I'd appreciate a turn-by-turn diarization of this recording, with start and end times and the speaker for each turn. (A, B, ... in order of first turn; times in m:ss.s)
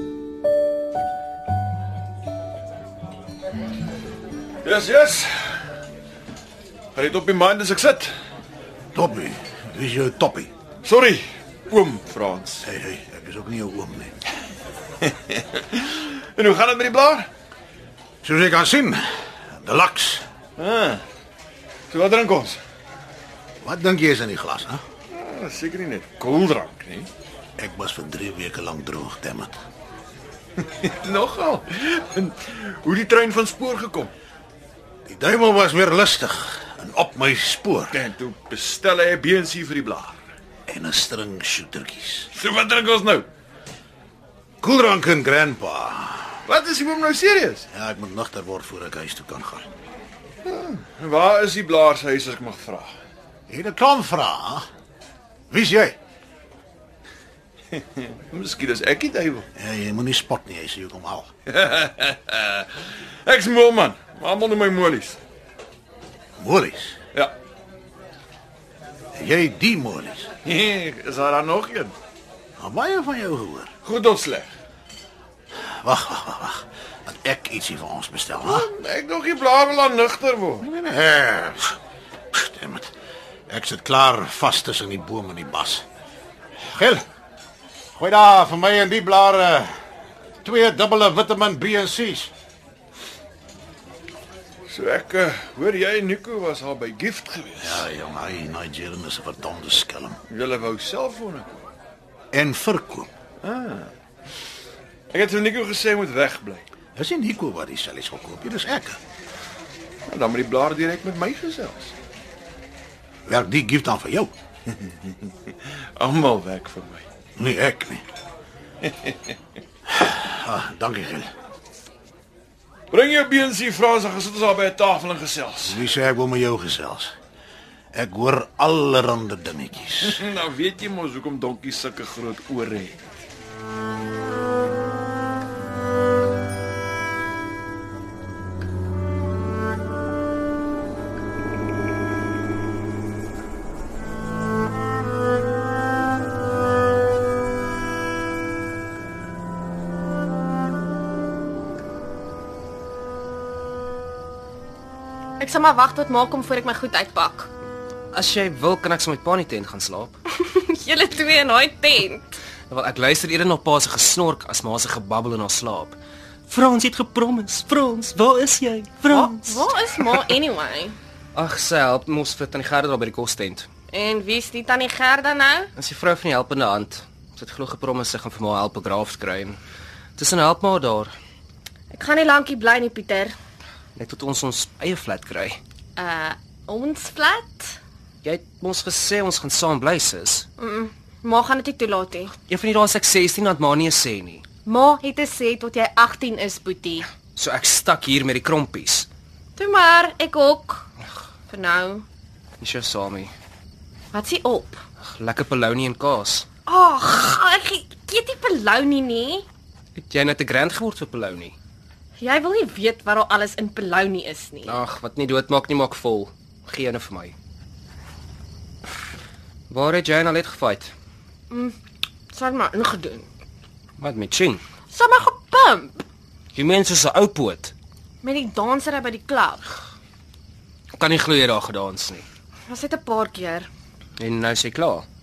0:04.6-0:05.6 A
0:07.0-0:08.1 A
0:08.9-0:10.5 B
0:10.8-0:12.7 A
0:12.6-0:14.1 B
0:15.0-0:17.3 A
0:18.2-0:20.2 B
0:20.6-0:21.0 A
0:21.9-0:22.6 A
0:23.6-0:24.8 B
0:25.1-0:27.1 A
0:27.6-0:29.6 B
0:30.6-0:34.1 A
0:35.1-0:38.0 B
0:37.9-0:40.2 A
0:40.7-0:42.3 B
0:42.3-0:43.3 A
0:44.6-0:46.4 B
0:46.5-0:47.7 A
0:47.7-0:49.7 B
0:50.4-0:53.0 A
0:53.5-0:54.7 B
0:55.5-0:56.0 B
0:57.7-0:59.5 A
0:59.6-1:01.3 B
1:01.5-1:05.2 A
1:06.4-1:07.0 B
1:09.1-1:10.3 B
1:10.4-1:12.0 A
1:12.6-1:13.7 B
1:13.8-1:14.5 A
1:15.6-1:18.7 B
1:18.4-1:20.7 A
1:20.6-1:21.8 B
1:22.3-1:22.9 B
1:23.5-1:25.8 B
1:26.6-1:27.0 B
1:27.9-1:29.7 B
1:30.4-1:32.3 B
1:34.7-1:37.9 A
1:37.6-1:40.2 B
1:40.3-1:41.7 A
1:42.3-1:43.1 B
1:43.4-1:43.9 A
1:45.1-1:46.6 A
1:47.0-1:49.0 B
1:50.1-1:51.9 A
1:53.3-1:54.3 B
1:54.7-1:57.0 A
1:57.4-1:58.0 B
1:58.8-1:59.3 A
1:59.9-2:01.3 B
2:02.9-2:05.9 A
2:05.6-2:07.1 B
2:07.9-2:10.2 B
2:10.0-2:13.0 A
2:35.4-2:37.5 C
2:38.1-2:40.2 D
2:40.3-2:42.3 C
2:42.7-2:46.0 D
2:46.5-2:50.4 D
2:49.1-2:51.0 C
2:51.4-2:53.7 D
2:53.9-2:55.7 C
2:55.8-2:59.6 D
3:00.2-3:01.1 D
3:01.9-3:03.3 C
3:04.0-3:05.6 D
3:06.0-3:07.8 C
3:08.2-3:10.5 D
3:10.6-3:12.3 C
3:12.3-3:14.4 D
3:14.7-3:17.1 C
3:17.2-3:19.1 D
3:19.6-3:20.9 C
3:21.5-3:22.1 C
3:22.6-3:23.3 D
3:24.1-3:24.8 C
3:25.0-3:26.5 D
3:26.7-3:29.4 C
3:30.0-3:31.6 D
3:32.2-3:34.8 C
3:34.6-3:37.4 D
3:39.7-3:40.9 D
3:41.5-3:41.8 C
3:42.3-3:43.3 C
3:44.0-3:44.6 D
3:44.9-3:46.0 C
3:46.5-3:47.7 D
3:48.2-3:49.6 C
3:51.0-3:52.2 D
3:52.7-3:53.7 C
3:54.2-3:55.1 D